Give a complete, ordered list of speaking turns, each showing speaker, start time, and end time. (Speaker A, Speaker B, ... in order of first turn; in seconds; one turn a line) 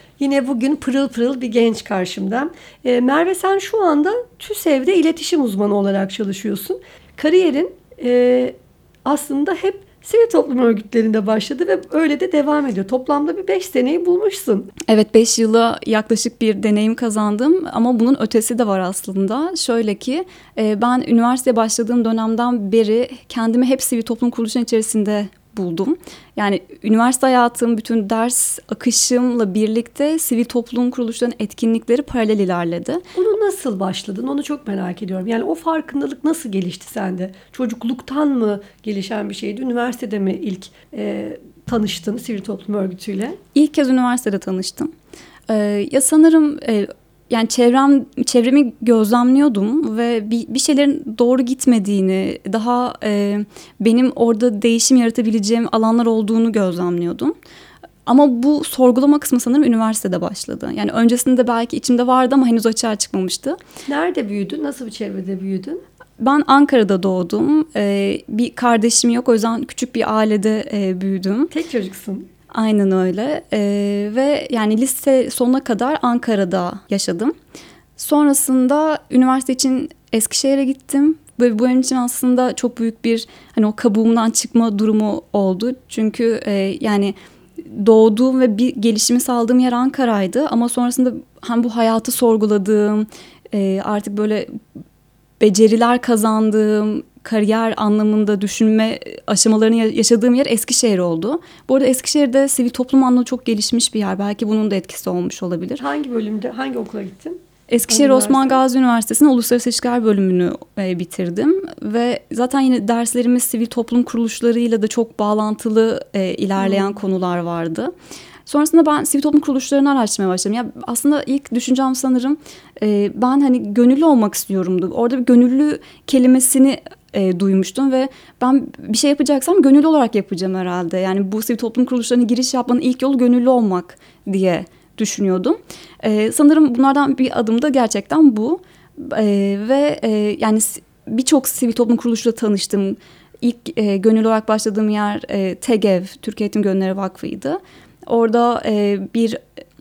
Speaker A: 0.2-14.7
Speaker B: 14.9-33.0
Speaker A: 33.1-43.4
Speaker B: 43.5-44.9
Speaker B: 45.5-57.3
Speaker B: 58.0-63.6
Speaker A: 63.9-65.8
Speaker B: 66.2-71.5
Speaker A: 71.5-72.3
Speaker B: 72.5-77.3
Speaker B: 78.0-94.5
Speaker B: 95.4-105.8
Speaker A: 105.8-108.6
Speaker B: 107.7-117.9
Speaker A: 116.6-117.0
Speaker B: 118.5-149.4